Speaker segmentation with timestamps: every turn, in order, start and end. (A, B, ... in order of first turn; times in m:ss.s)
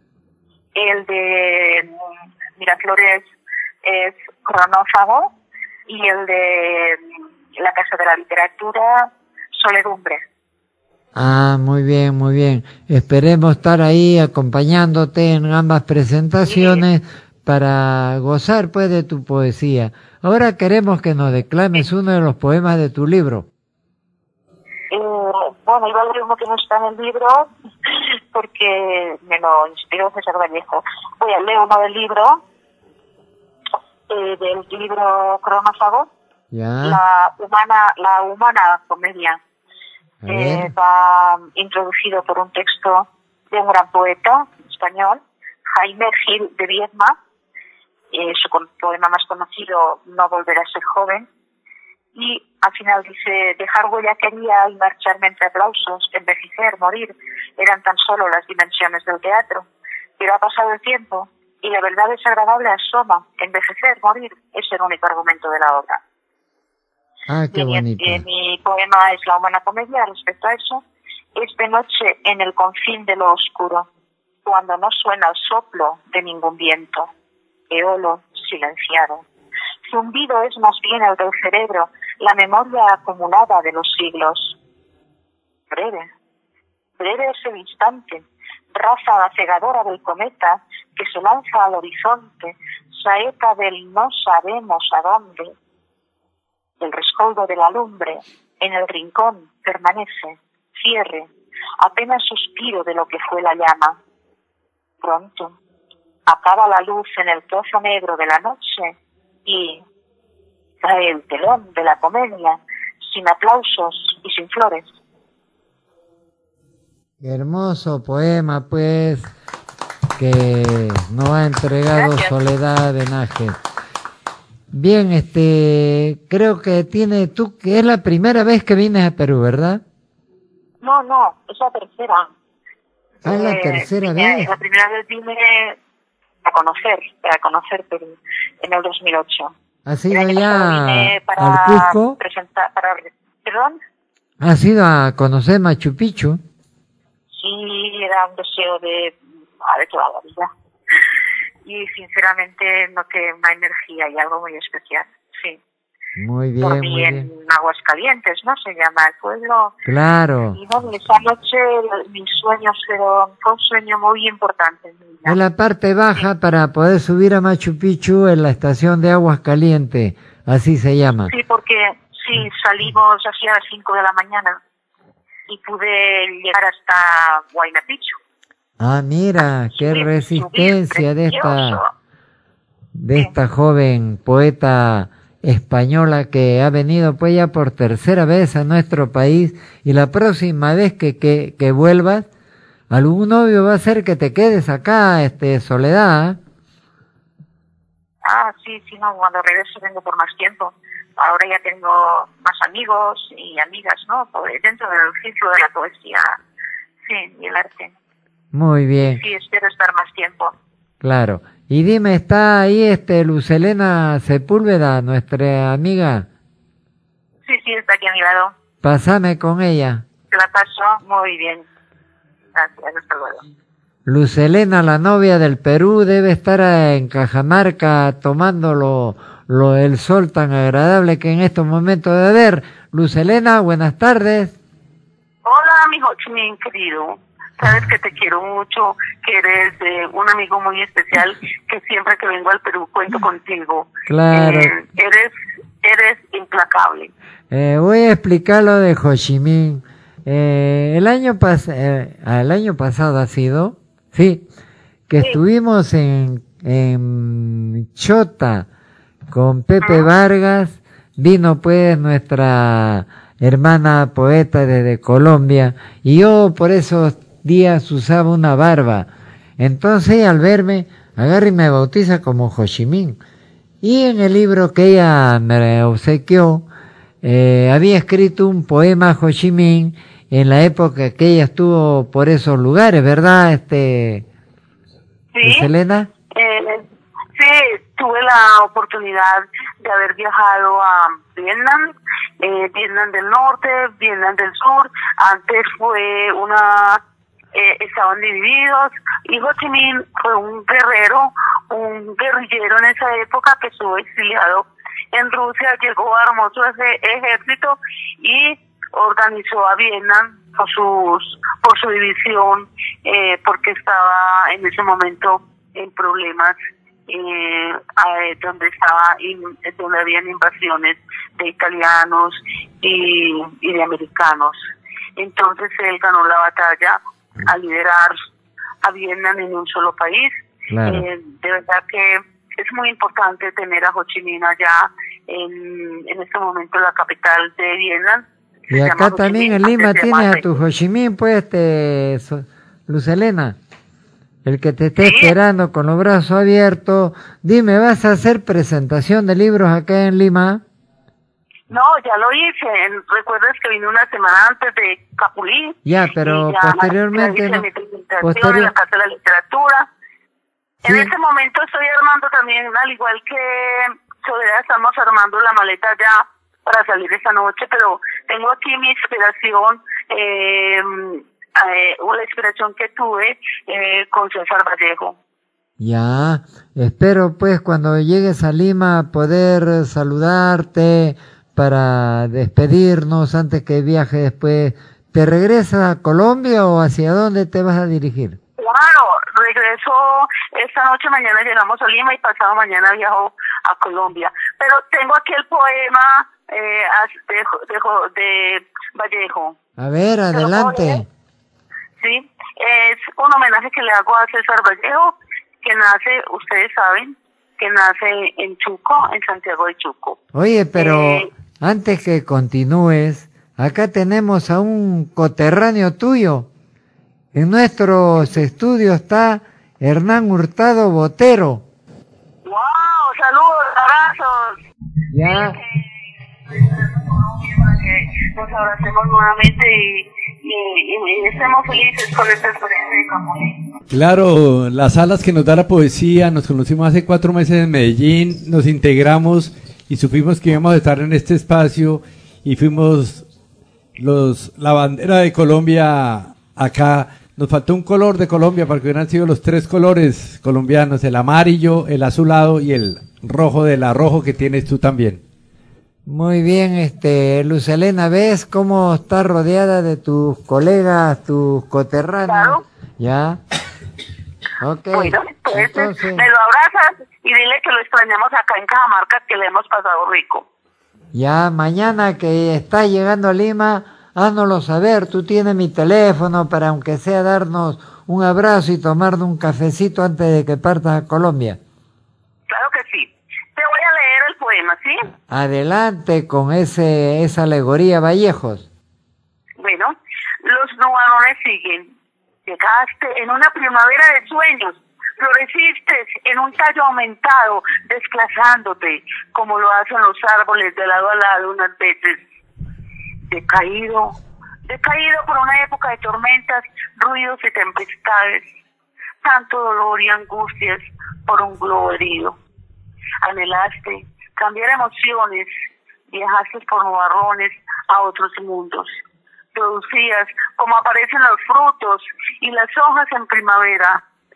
0:00.7-0:01.9 A
0:02.6-0:03.3 A
0:03.8-0:05.3 A
0:05.9-0:07.0 A
0:07.6-0:10.2 A
0:11.1-0:23.5 B
0:16.4-0:16.8 A
0:24.9-0:32.4 A
0:34.1-0:36.1 A
0:36.5-0:37.0 B
0:36.8-0:39.4 A
0:40.2-0:40.7 B
0:40.2-0:47.2 A
0:48.1-0:51.3 A
0:52.1-0:59.7 A
1:00.2-1:06.0 A
1:07.3-1:08.2 B
1:07.5-1:10.8 A
1:11.4-1:13.9 A
1:14.4-1:17.1 A
1:17.7-1:19.2 A
1:19.9-1:24.6 A
1:25.7-1:26.1 A
1:27.0-1:35.5 A
1:36.8-1:44.0 A
1:45.0-1:45.6 A
1:46.2-1:48.9 A
1:49.4-1:49.8 A
1:50.8-1:54.9 A
1:57.2-1:59.3 B
2:00.2-2:03.6 B
2:01.9-2:02.3 A
2:04.7-2:09.8 B
2:10.8-2:12.3 A
2:13.2-2:15.8 A
2:13.2-2:14.5 B
2:16.4-2:19.5 A
2:19.8-2:22.2 B
2:20.1-2:23.8 A
2:24.4-2:26.4 B
2:27.3-2:30.5 A
2:31.6-2:35.6 A
2:36.2-2:37.3 B
2:36.6-2:39.7 A
2:39.8-2:40.6 B
2:40.5-2:45.4 A
2:45.2-2:51.3 B
2:51.3-2:54.6 A
2:55.5-2:58.2 A
2:58.8-3:01.8 B
2:59.7-3:01.9 A
3:02.9-3:12.3 B
3:12.9-3:16.4 B
3:18.2-3:26.4 A
3:27.0-3:27.9 A
3:28.5-3:29.2 B
3:29.1-3:30.5 A
3:31.0-3:36.3 B
3:37.4-3:38.5 A
3:38.8-3:40.0 B
3:40.3-3:41.6 A
3:42.5-3:43.4 A
3:44.0-3:54.5 B
3:55.4-4:07.1 C
4:04.1-4:04.7 B
4:07.5-4:14.4 B
4:15.1-4:18.7 B
4:19.3-4:33.2 B
4:33.8-4:36.6 B
4:37.2-4:44.2 B
4:45.3-4:45.7 C
4:45.4-4:46.1 B
4:46.3-4:57.0 C
4:57.5-5:16.6 C
5:17.1-5:24.6 C
5:25.2-5:28.2 C
5:28.8-5:30.3 C
5:30.7-5:31.0 B
5:30.8-5:40.4 C
5:38.7-5:43.6 B
5:44.4-5:50.6 B
5:45.0-5:45.3 C
5:51.7-5:59.9 C
5:55.8-5:57.6 B
5:58.2-5:58.7 B
6:00.8-6:15.2 C
6:15.8-6:28.4 B
6:28.6-6:39.6 C
6:39.8-6:41.0 B
6:40.3-6:41.0 C
6:42.0-6:50.2 C
6:50.3-6:56.5 B
6:50.8-6:51.3 C
6:57.3-7:01.6 B
7:02.4-7:04.6 C
7:05.1-7:05.6 B
7:05.2-7:05.8 C
7:06.5-7:13.6 C
7:13.9-7:23.2 D
7:24.0-7:35.2 D
7:36.0-7:43.4 B
7:42.3-7:42.6 C
7:44.6-7:46.2 B
7:44.9-7:50.4 C
7:51.1-8:01.6 B
8:02.5-8:05.0 C
8:05.3-8:08.7 B
8:09.6-8:11.9 C
8:12.4-8:22.2 C
8:23.3-8:24.2 C
8:24.7-8:28.4 C
8:29.2-8:32.4 C
8:33.2-8:35.5 C
8:36.1-8:39.0 C
8:39.5-8:44.0 C